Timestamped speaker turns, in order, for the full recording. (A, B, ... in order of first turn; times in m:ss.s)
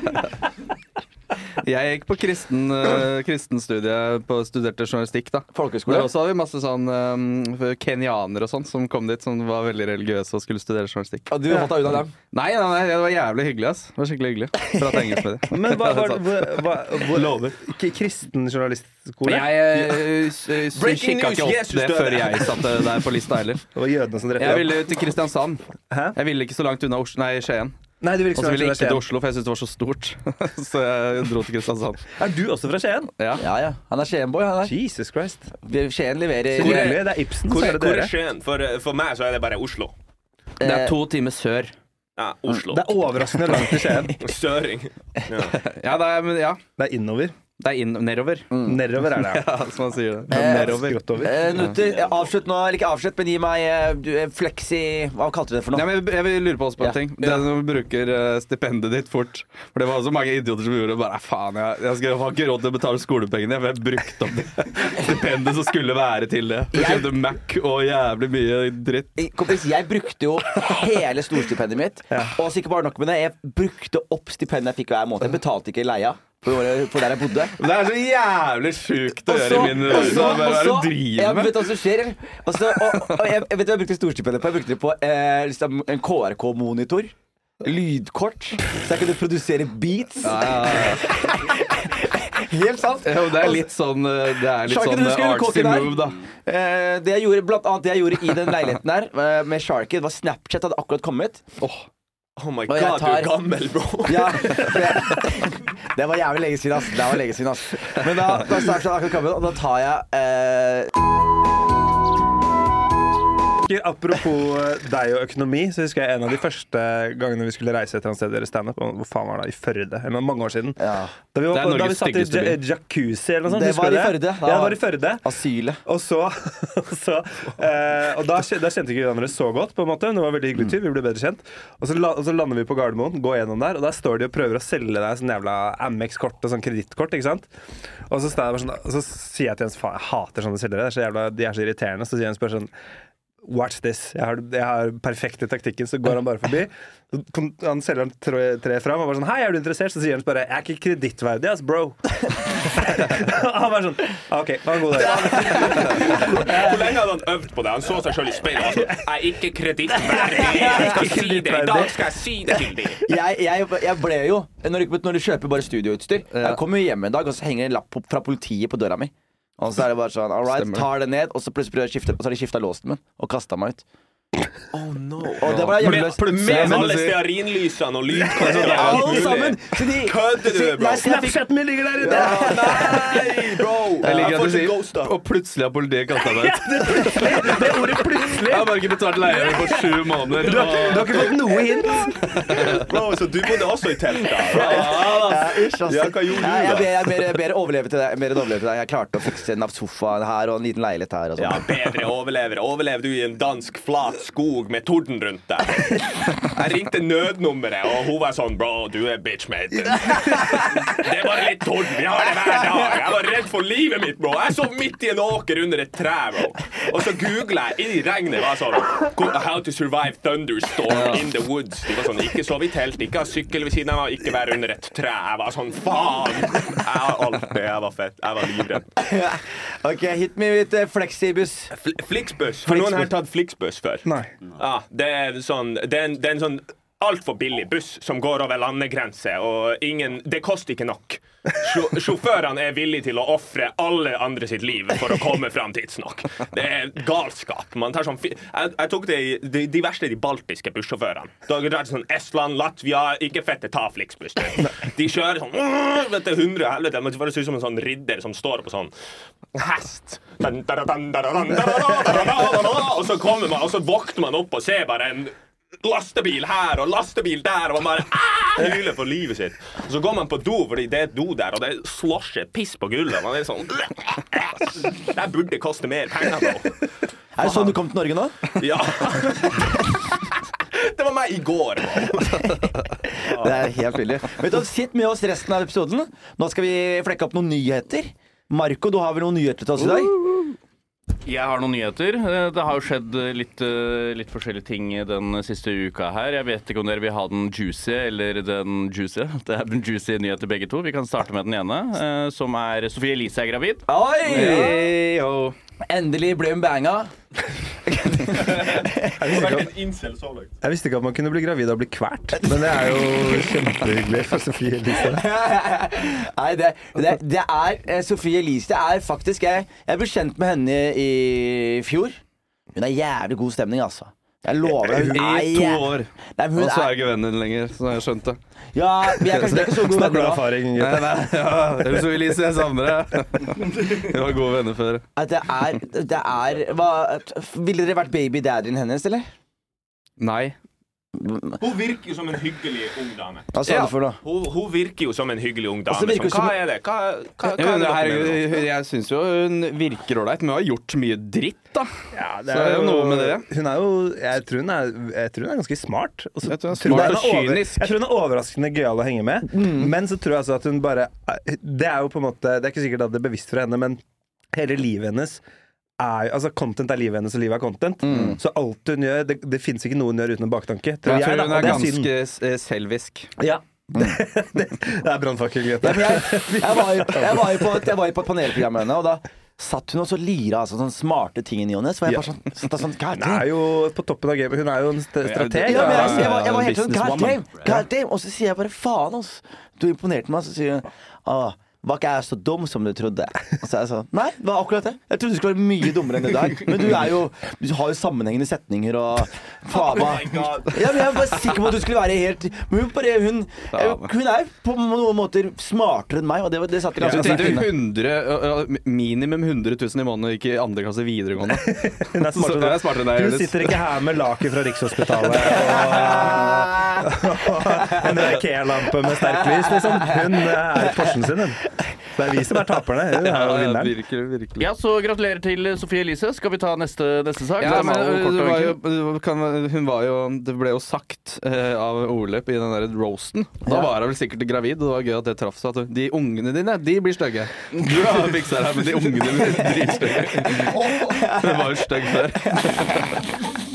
0:01.6-0:11.6 A
0:05.5-0:06.1 B
0:11.3-0:12.1 B
0:12.3-0:17.4 A
0:15.5-0:19.6 C
0:19.2-0:23.7 A
0:19.7-0:20.0 D
0:20.7-0:22.6 D
0:23.7-0:24.9 C
0:24.4-0:25.6 A
0:25.9-0:26.2 C
0:26.1-0:27.7 A
0:28.0-0:29.0 C
0:28.3-0:32.0 A
0:32.2-0:33.1 C
0:33.2-0:33.4 A
0:33.4-0:34.8 B
0:34.6-0:35.5 C
0:35.6-0:37.0 B
0:36.5-0:38.1 C
0:36.6-0:39.9 D
0:40.6-0:41.0 B
0:40.6-0:41.7 A
0:42.2-0:43.0 D
0:42.7-0:44.2 C
0:44.2-0:45.6 D
0:45.5-0:46.6 A
0:46.8-0:47.3 C
0:47.6-0:48.5 A
0:48.5-0:48.8 B
0:48.6-0:49.4 C
0:49.0-0:51.0 A
0:50.3-0:51.6 C
0:50.3-0:55.9 B
0:55.7-1:09.1 A
1:06.7-1:07.1 B
1:09.2-1:17.6 B
1:17.6-1:21.6 A
1:19.3-1:33.7 B
1:30.2-1:31.0 A
1:33.0-1:36.2 A
1:34.6-1:41.4 B
1:42.4-1:44.8 D
1:42.7-1:43.4 B
1:44.0-1:50.9 B
1:53.6-2:00.8 C
2:00.8-2:01.1 B
2:01.3-2:05.2 C
2:01.5-2:02.6 A
2:03.4-2:05.8 B
2:05.8-2:17.5 C
2:18.1-2:22.7 C
2:23.4-2:37.0 C
2:35.1-2:43.0 D
2:35.2-2:35.6 B
2:40.1-2:42.5 C
2:40.6-2:40.8 B
2:43.0-2:53.8 B
2:46.3-2:46.6 A
2:50.5-2:50.9 A
2:54.7-3:01.1 D
2:55.4-2:56.9 B
2:55.4-2:57.2 A
2:58.3-3:01.4 B
2:58.4-2:59.3 A
3:01.0-3:03.2 C
3:02.0-3:05.1 D
3:02.1-3:02.5 B
3:04.0-3:11.3 A
3:06.3-3:09.8 C
3:10.4-3:12.3 C
3:12.5-3:12.7 A
3:12.7-3:17.3 D
3:14.5-3:21.6 B
3:21.4-3:48.9 D
3:40.9-3:41.2 A
3:49.0-3:51.7 B
3:51.7-4:18.9 D
3:54.0-3:54.3 C
4:19.5-4:36.7 D
4:37.4-4:38.4 B
4:37.4-4:37.7 D
4:38.6-4:40.1 D
4:40.7-4:42.7 D
4:43.3-4:43.6 D
4:43.3-4:50.2 B
4:51.2-5:03.8 E
5:03.9-5:04.9 B
5:04.2-5:05.5 A
5:05.9-5:07.1 B
5:07.8-5:09.2 B
5:08.4-5:10.5 D
5:09.2-5:09.7 C
5:10.6-5:15.2 C
5:12.4-5:12.9 B
5:14.9-5:22.2 B
5:22.7-5:27.0 B
5:24.8-5:28.4 A
5:28.7-5:30.5 B
5:29.3-5:29.6 A
5:29.4-5:32.0 C
5:30.8-5:35.0 A
5:35.2-5:39.3 B
5:40.2-5:40.6 A
5:41.1-5:41.6 B
5:41.6-5:43.5 D
5:43.5-5:44.2 B
5:43.6-5:43.9 A
5:44.2-5:48.6 D
5:45.9-5:46.6 B
5:47.5-5:51.9 A
5:52.1-6:04.0 C
5:52.5-5:53.5 A
5:56.5-5:57.9 A
5:56.9-5:57.2 B
5:59.4-5:59.9 B
6:04.5-6:05.4 C
6:06.0-6:12.1 C
6:08.0-6:08.4 B
6:11.0-6:13.3 A
6:13.4-6:17.8 C
6:15.8-6:23.5 B
6:23.1-6:26.5 C
6:25.2-6:27.4 A
6:25.6-6:47.7 B
6:39.7-6:41.0 D
6:43.7-6:44.1 A
6:47.0-6:47.7 C
6:47.0-6:51.7 A
6:51.5-7:03.9 C
6:52.3-6:53.8 A
6:55.4-6:57.1 B
6:57.8-6:58.4 B
6:59.1-7:01.1 B
7:03.2-7:04.6 A
7:04.6-7:08.8 E
7:07.6-7:23.1 A
7:20.3-7:22.9 B